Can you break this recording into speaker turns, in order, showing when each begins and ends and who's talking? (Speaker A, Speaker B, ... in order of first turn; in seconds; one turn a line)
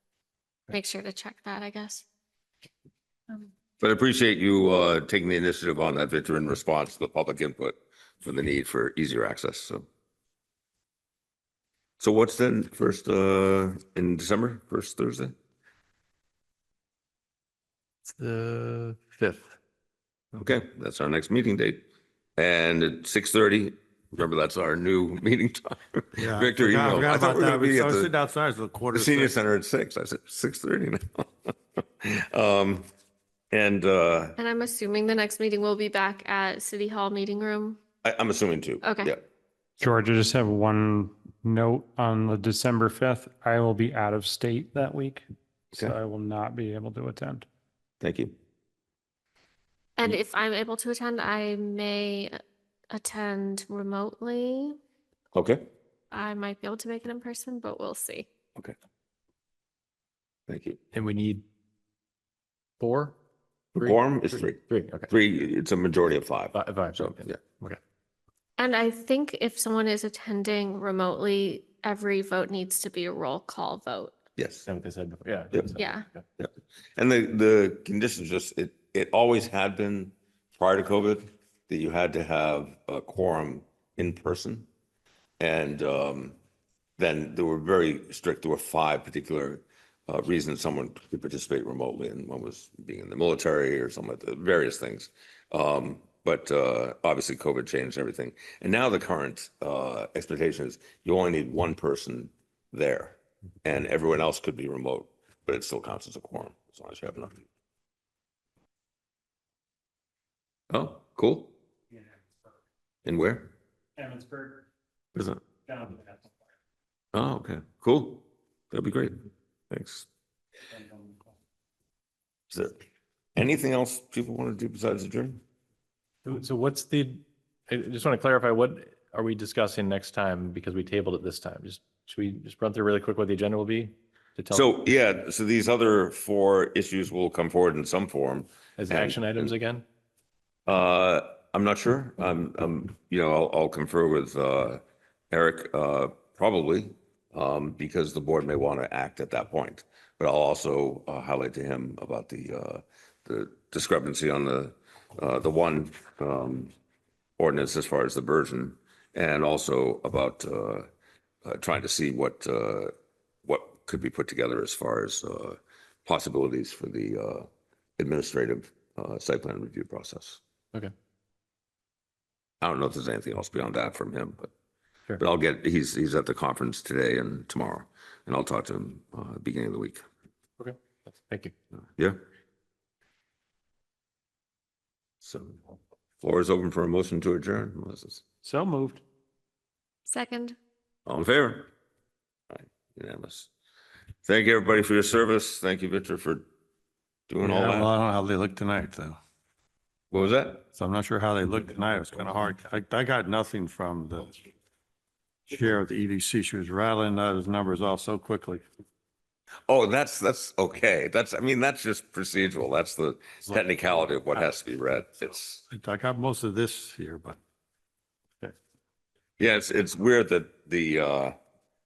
Speaker A: 0.7-2.0
Speaker B: 3.8-9.9
Speaker B: 12.0-15.3
Speaker C: 18.1-19.4
Speaker B: 20.3-21.8
Speaker B: 22.4-28.1
Speaker C: 26.2-29.4
Speaker B: 28.9-32.9
Speaker B: 33.5-34.4
Speaker A: 34.4-37.8
Speaker B: 38.0-39.2
Speaker A: 38.8-39.1
Speaker D: 39.8-47.5
Speaker B: 48.0-48.4
Speaker A: 50.0-52.4
Speaker A: 52.9-54.8
Speaker B: 55.3-55.7
Speaker A: 56.1-58.3
Speaker B: 60.5-60.8
Speaker E: 60.9-61.4
Speaker E: 62.8-63.1
Speaker B: 63.8-67.4
Speaker E: 63.8-65.1
Speaker E: 66.5-67.8
Speaker A: 68.6-74.2
Speaker B: 74.4-74.7
Speaker E: 74.7-76.2
Speaker A: 75.8-76.0
Speaker B: 76.4-84.7
Speaker B: 85.4-86.4
Speaker B: 87.0-107.5
Speaker B: 110.7-111.5
Speaker D: 111.9-112.4
Speaker B: 113.0-113.5
Speaker D: 114.0-114.7
Speaker B: 115.2-115.4
Speaker D: 115.7-116.3
Speaker B: 117.1-120.1
Speaker D: 120.7-121.3
Speaker B: 122.5-122.8
Speaker B: 123.4-125.4
Speaker E: 126.2-134.8
Speaker B: 134.5-139.5
Speaker E: 138.8-139.8
Speaker B: 140.7-156.7
Speaker B: 157.4-160.9
Speaker B: 161.4-162.9
Speaker B: 163.4-170.4
Speaker B: 172.6-174.5
Speaker B: 175.2-180.0
Speaker E: 180.6-181.5
Speaker B: 185.2-185.6
Speaker B: 186.2-188.2
Speaker D: 188.4-189.0
Speaker A: 190.1-190.6
Speaker B: 191.1-191.7
Speaker B: 192.5-193.5
Speaker B: 194.2-196.5
Speaker B: 197.3-197.9
Speaker C: 197.4-199.2
Speaker B: 200.1-200.6
Speaker C: 200.8-204.4
Speaker C: 205.5-208.6
Speaker B: 209.7-215.6
Speaker C: 213.5-213.9
Speaker C: 215.7-217.4
Speaker B: 219.4-221.3